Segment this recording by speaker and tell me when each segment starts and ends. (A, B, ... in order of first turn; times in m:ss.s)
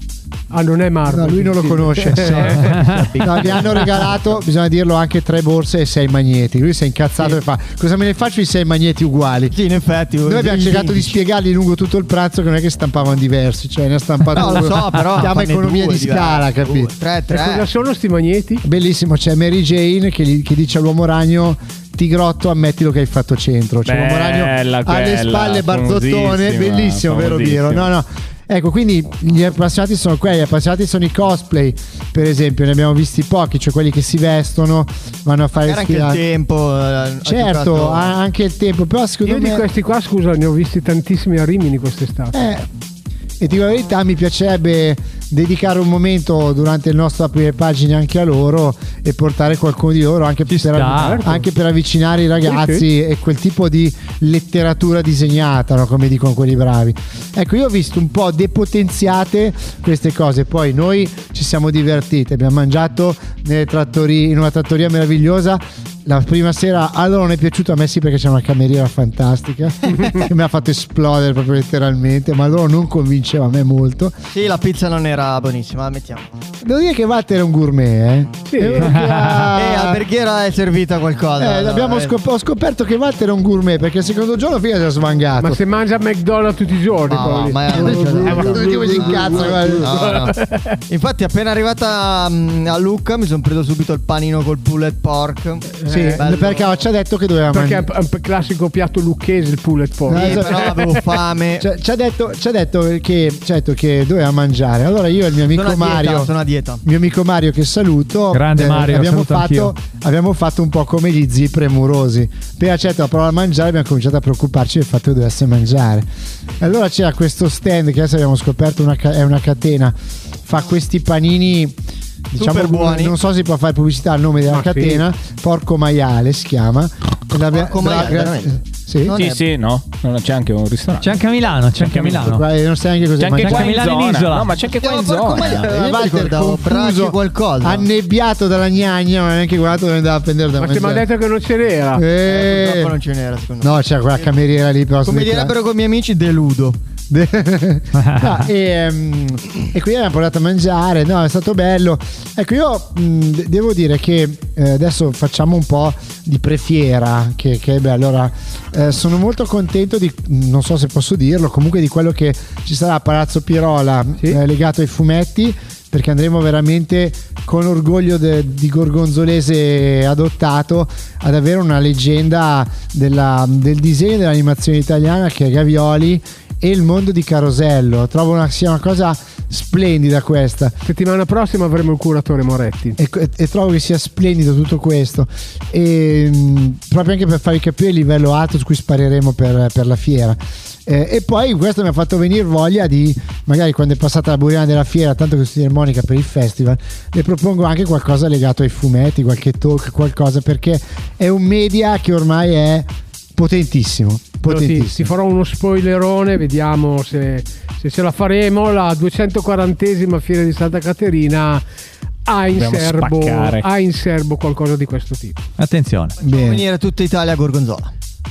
0:00.5-0:03.0 A
0:01.1-0:09.6 B
0:02.9-0:03.8 C
0:03.2-0:03.6 D
0:09.5-0:11.1 D
0:10.2-0:16.9 B
0:14.3-0:17.7 D
0:17.3-0:18.6 A
0:18.6-0:36.2 B
0:23.8-0:27.9 C
0:35.6-0:38.1 D
0:37.2-0:39.6 B
0:39.2-0:42.4 A
0:42.3-0:42.7 B
0:43.4-1:14.2 B
0:50.5-0:51.3 E
0:50.9-0:51.4 A
0:52.4-0:52.8 A
1:14.3-1:16.3 D
1:16.6-1:20.0 B
1:18.5-1:19.0 A
1:18.8-1:19.5 E
1:19.5-1:22.1 D
1:21.4-1:25.6 B
1:25.4-1:30.8 A
1:27.1-1:36.8 D
1:27.7-1:30.0 B
1:35.7-1:36.2 A
1:35.9-1:37.9 B
1:37.5-1:40.9 A
1:40.1-1:40.8 B
1:40.1-1:41.7 D
1:41.6-1:46.3 B
1:45.5-1:46.8 D
1:46.8-1:56.1 B
1:48.3-1:49.7 E
1:56.6-2:01.8 B
2:02.3-2:09.2 B
2:02.3-2:03.1 D
2:04.5-2:05.0 A
2:07.5-2:08.5 D
2:09.0-2:09.4 D
2:09.1-2:11.2 C
2:11.0-2:12.4 E
2:11.8-2:12.2 C
2:12.0-2:13.8 B
2:13.2-2:15.7 C
2:13.4-2:14.5 E
2:14.7-2:17.9 D
2:15.3-2:21.1 B
2:20.6-2:22.0 A
2:21.9-2:23.0 B
2:22.2-2:24.3 D
2:23.6-2:25.5 B
2:25.0-2:26.8 D
2:27.1-3:00.8 B
2:28.0-2:28.4 E
3:00.8-3:03.0 A
3:03.0-3:25.1 B
3:24.4-3:31.6 A
3:32.3-3:35.4 A
3:32.5-3:33.7 C
3:35.6-3:36.2 E
3:36.2-3:36.6 B
3:36.2-3:37.9 D